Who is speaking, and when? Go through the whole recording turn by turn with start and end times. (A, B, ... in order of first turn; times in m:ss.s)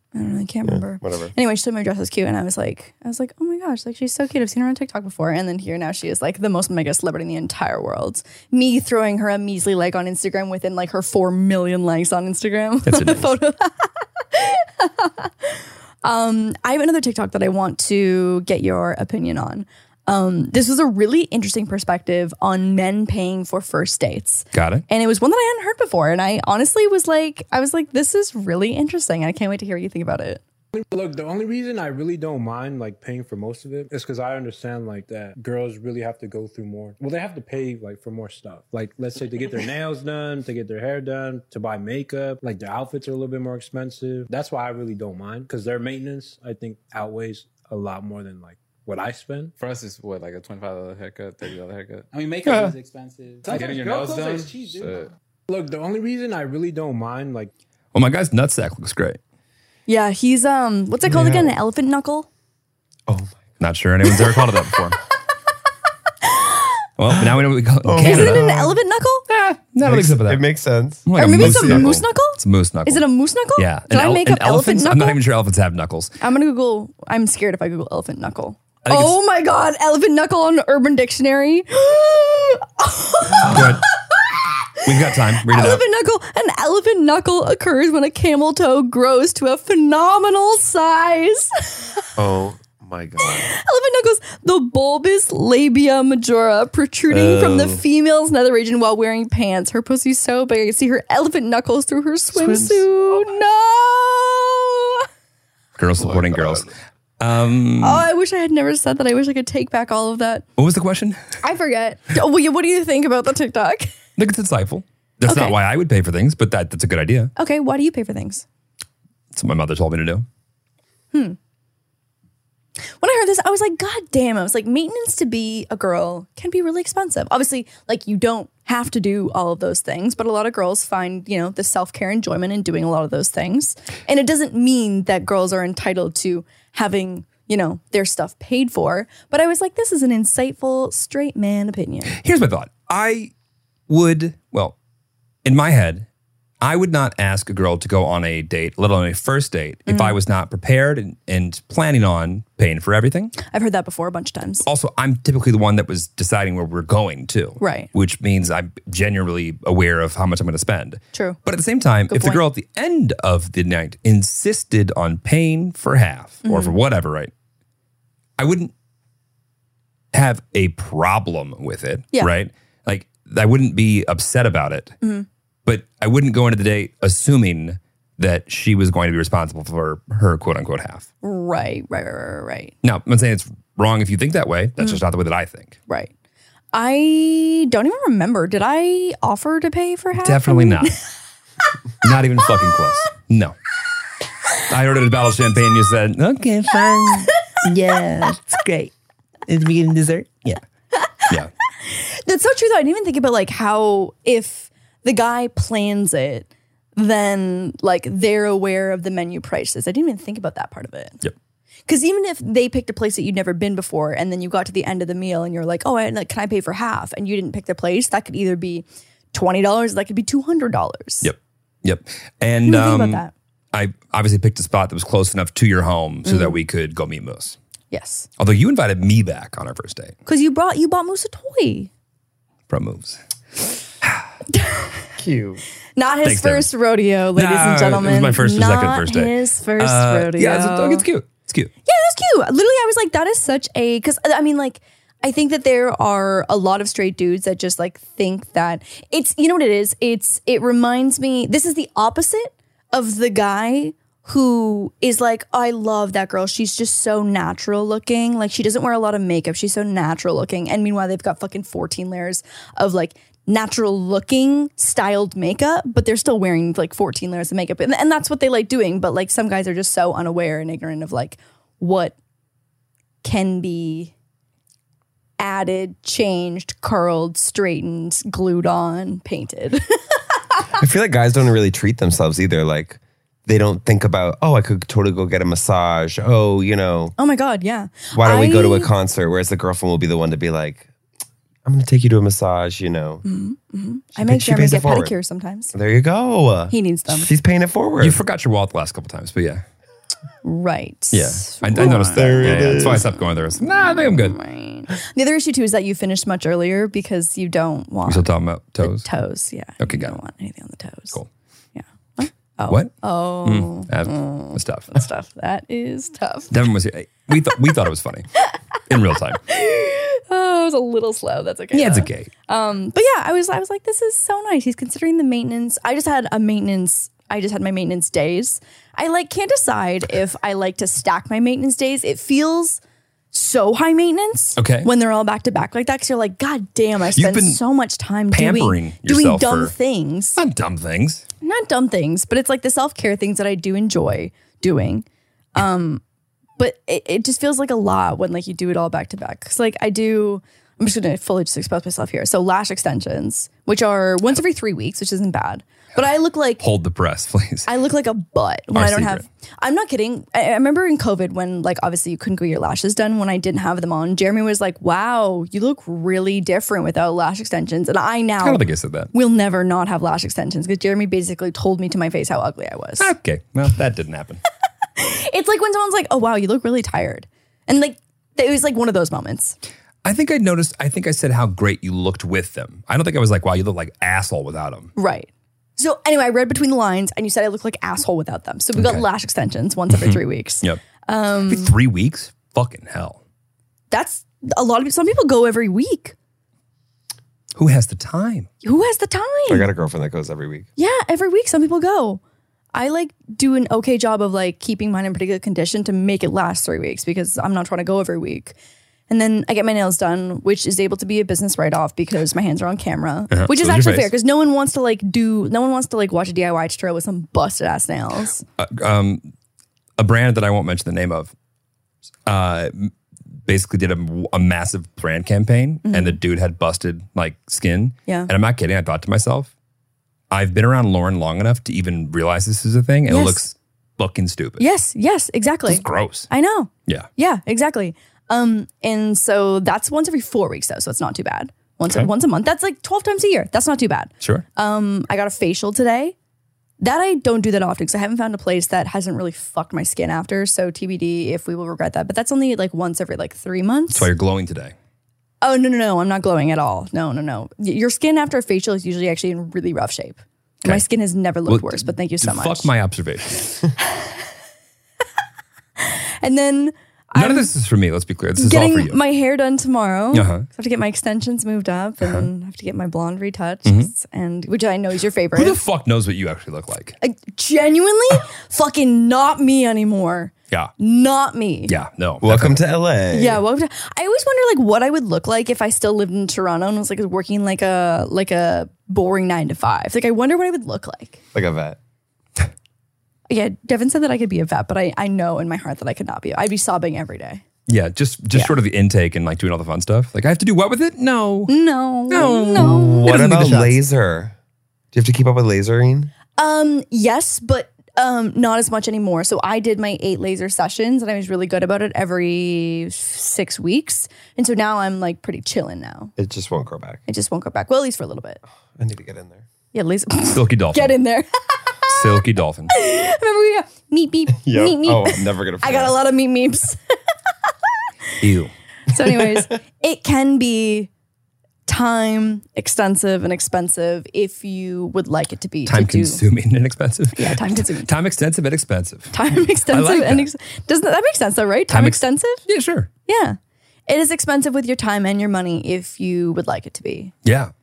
0:00.1-0:30.4 A
0:00.6-0:01.3 B
0:12.9-0:13.3 C
0:24.5-0:24.8 C
0:30.7-0:49.5 D
0:49.6-0:55.1 E
0:52.4-0:52.7 C
0:53.4-0:57.5 D
0:57.9-0:59.2 C
0:59.9-1:02.3 A
1:01.1-1:01.5 B
1:03.1-1:03.4 B
1:03.6-1:05.0 C
1:07.0-1:08.5 C
1:07.8-1:08.8 B
1:08.0-1:09.2 A
1:09.3-1:10.5 C
1:09.8-1:12.0 B
1:11.0-1:16.1 C
1:11.1-1:15.2 A
1:16.2-1:31.7 A
1:18.8-1:19.2 C
1:23.4-1:23.8 C
1:24.8-1:25.8 C
1:32.2-1:33.5 B
1:33.2-1:45.1 A
1:37.1-1:37.8 C
1:42.5-1:42.8 B
1:45.8-1:48.1 C
1:47.8-1:50.4 A
1:50.6-1:51.2 C
1:51.4-1:53.9 A
1:54.2-1:57.3 C
1:55.3-1:55.6 A
1:57.4-1:58.4 A
1:59.3-2:00.2 C
2:03.0-2:22.1 A
2:22.1-2:23.3 C
2:23.9-2:24.7 C
2:25.4-2:26.1 C
2:26.6-2:33.3 C
2:29.9-2:30.2 A
2:33.4-2:34.6 A
2:34.6-2:47.3 C
2:37.6-2:37.9 A
2:41.1-2:41.4 A
2:42.1-2:42.4 A
2:46.4-2:46.8 A
2:48.4-2:48.7 C
2:50.1-2:55.0 C
2:55.6-3:01.1 C
3:01.2-3:02.7 A
3:02.8-3:05.8 C
3:06.7-3:10.9 A
3:10.2-3:10.9 C
3:12.0-3:13.6 C
3:14.7-3:18.9 C
3:19.4-3:20.6 C
3:21.0-3:31.2 A
3:31.9-3:41.3 A
3:41.2-3:47.6 C
3:42.6-3:43.3 A
3:46.2-3:46.6 A
3:47.9-3:48.3 A
3:48.4-3:50.1 C
3:50.2-3:51.9 A
3:52.7-3:53.2 C
3:54.5-3:55.0 A
3:55.2-3:55.6 B
3:56.0-4:01.1 A
3:56.2-3:56.7 C
3:57.3-4:01.7 C
4:01.8-4:32.1 A
4:33.2-4:34.1 A
4:35.4-4:39.8 A
4:40.8-4:47.1 B
4:47.2-4:48.9 A
4:48.1-4:50.9 B
4:51.6-4:53.2 B
4:53.2-4:55.7 A
4:54.2-4:55.1 B
4:55.7-4:58.2 B
4:56.7-4:57.3 A
4:58.0-4:59.6 C
5:00.4-5:08.3 A
5:01.1-5:04.4 C
5:01.8-5:03.1 B
5:08.1-5:09.1 C
5:08.8-5:11.2 A
5:09.8-5:10.2 C
5:11.8-5:16.5 A
5:13.4-5:14.9 C
5:16.5-5:18.3 C
5:18.9-5:19.4 C
5:19.4-5:32.8 A
5:21.7-5:22.3 C
5:33.3-5:40.4 A
5:34.6-5:34.9 C
5:37.1-5:37.6 C
5:38.3-5:39.7 C
5:40.4-5:41.3 C
5:41.4-5:46.0 A
5:46.6-5:56.6 A
5:56.6-5:57.7 C
5:57.7-6:13.1 A
5:58.7-5:59.2 C
6:08.4-6:09.1 C
6:13.0-6:14.4 C
6:15.0-6:19.6 A
6:20.0-6:24.9 C
6:25.0-6:31.7 A
6:28.8-6:29.0 C
6:29.9-6:30.8 C
6:31.4-6:33.2 C
6:33.9-6:36.1 A
6:37.6-6:38.5 C
6:38.6-6:39.7 A
6:39.5-6:40.7 B
6:40.8-6:42.2 A
6:42.7-6:48.6 A
6:49.1-6:58.4 A
6:53.3-6:54.1 C
6:58.6-6:59.3 C
7:00.0-7:01.3 C
7:02.3-7:02.9 C
7:03.4-7:09.5 C
7:05.8-7:06.2 A
7:10.3-7:14.6 C
7:13.1-7:13.4 A
7:14.6-7:26.1 A
7:15.7-7:16.3 C
7:26.8-7:34.1 A
7:33.9-7:34.7 C
7:35.4-7:42.7 A
7:41.5-7:43.7 C
7:45.8-7:47.5 A
7:47.2-7:49.0 C
7:48.4-7:55.6 A
7:50.1-7:50.5 C
7:52.0-7:52.3 C
7:53.7-7:53.9 C
7:55.3-7:57.0 C
7:57.0-8:01.7 A
8:01.7-8:02.6 C
8:02.2-8:03.4 B
8:03.1-8:11.2 A
8:11.3-8:11.8 B
8:13.3-8:17.4 A
8:17.7-8:21.5 C
8:21.5-8:23.2 A
8:22.1-8:23.8 C
8:22.6-8:24.3 B
8:24.9-8:26.1 B
8:26.4-8:36.1 A
8:36.2-8:37.0 B
8:37.1-8:38.4 A
8:38.7-8:39.4 B
8:39.7-8:41.3 A
8:40.3-8:41.0 C
8:41.9-8:42.7 C
8:42.7-8:46.8 A
8:44.4-8:46.0 B
8:48.2-8:48.5 C
8:48.9-8:50.9 A
8:49.0-8:49.5 B
8:51.7-8:56.2 A
8:55.7-8:59.1 C
8:57.1-8:57.9 A
8:59.1-9:02.4 A
8:59.7-9:00.3 C
9:01.7-9:02.9 C
9:03.1-9:07.1 A
9:07.2-9:07.5 C